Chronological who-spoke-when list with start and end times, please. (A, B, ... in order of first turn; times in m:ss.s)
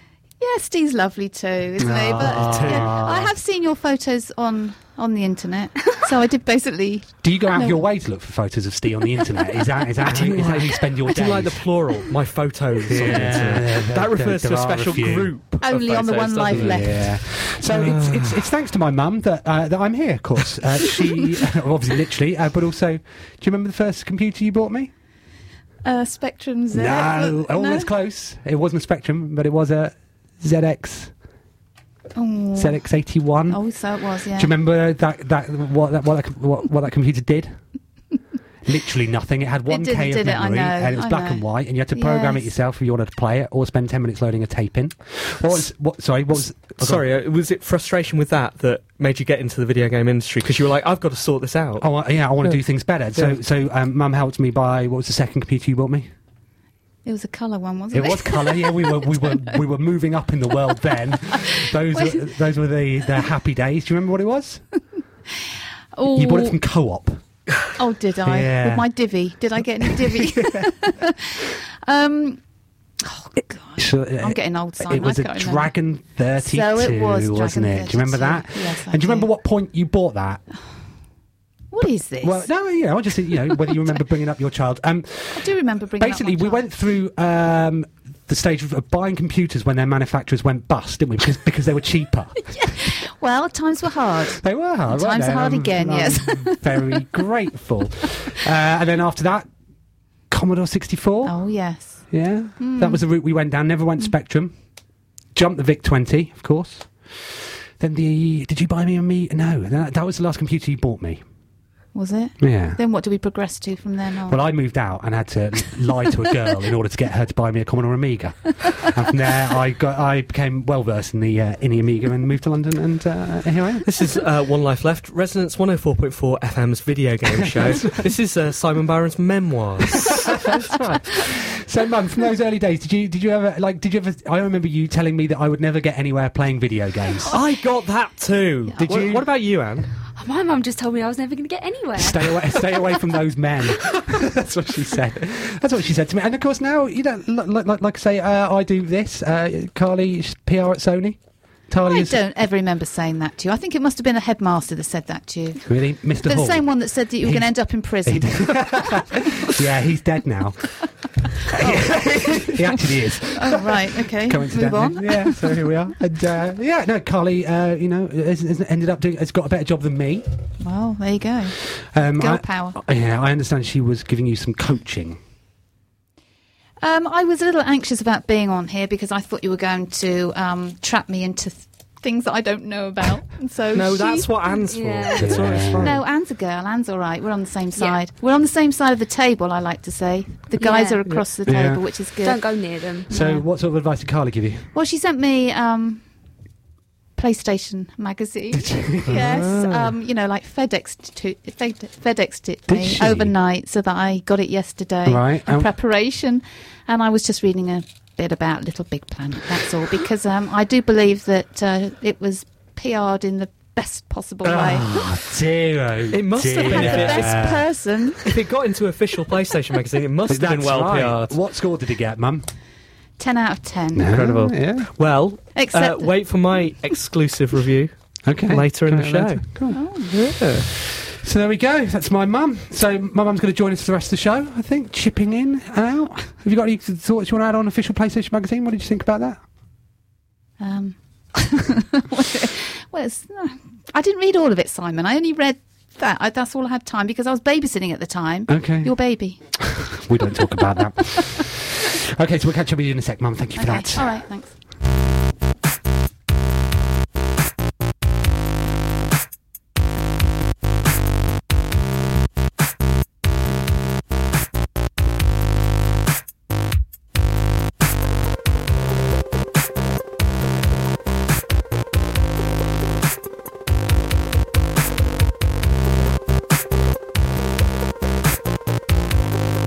0:00.4-0:07.8 A
0:01.8-0:03.4 B
0:02.2-0:03.0 C
0:07.2-0:11.6 B
0:10.0-0:18.4 C
0:12.9-0:15.3 B
0:15.6-0:17.0 A
0:16.5-0:24.9 B
0:25.8-0:27.9 A
0:26.7-0:31.1 B
0:32.2-0:32.8 A
0:32.6-0:33.6 B
0:33.5-0:34.5 A
0:34.3-0:37.6 B
0:38.6-0:47.1 B
0:39.7-0:42.5 A
0:46.8-0:51.9 C
0:51.8-0:56.1 B
0:57.0-0:59.6 A
0:57.9-1:04.6 B
1:01.3-1:02.2 A
1:06.0-1:06.6 A
1:06.1-1:07.2 B
1:07.8-1:12.4 A
1:08.2-1:08.9 B
1:09.9-1:10.6 B
1:13.0-1:15.7 A
1:13.8-1:20.4 B
1:16.4-1:19.3 A
1:21.7-1:22.5 A
1:22.2-1:32.5 B
1:25.4-1:26.6 A
1:32.6-1:37.0 A
1:34.4-1:39.5 B
1:40.3-1:41.4 B
1:41.2-1:42.0 A
1:42.1-1:44.5 B
1:42.6-1:43.0 A
1:45.4-1:51.2 B
1:51.9-1:54.4 A
1:52.4-1:52.8 B
1:54.3-2:03.9 B
2:03.8-2:10.5 C
2:07.5-2:08.0 B
2:10.1-2:17.4 B
2:17.3-2:19.9 C
2:18.8-2:19.3 B
2:20.2-2:22.9 D
2:22.0-2:32.2 B
2:31.9-2:39.2 A
2:35.7-2:37.5 B
2:38.0-2:40.8 B
2:41.5-2:50.3 B
2:41.5-2:42.8 A
2:43.4-2:45.7 A
2:50.6-2:51.6 A
2:51.7-2:55.2 B
2:52.2-2:52.8 A
2:56.8-3:04.3 A
3:03.7-3:06.0 C
3:04.7-3:05.4 D
3:05.1-3:06.0 B
3:05.8-3:12.4 A
3:10.6-3:11.0 D
3:11.4-3:11.8 B
3:12.2-3:13.1 D
3:13.1-3:13.5 A
3:13.1-3:14.7 B
3:14.7-3:16.0 A
3:17.2-3:35.1 A
3:18.5-3:19.8 B
3:19.1-3:19.6 C
3:22.7-3:23.3 B
3:25.0-3:25.7 B
3:34.4-3:37.7 B
3:36.1-3:37.5 C
3:36.6-3:38.3 A
3:38.2-3:41.4 C
3:40.3-3:42.5 B
3:43.2-3:44.2 A
3:43.9-3:44.9 B
3:44.1-3:50.7 C
3:45.6-3:46.1 A
3:48.3-3:49.8 B
3:49.7-3:50.1 A
3:50.7-3:59.4 B
4:00.6-4:09.4 A
4:08.5-4:14.2 B
4:13.6-4:14.5 A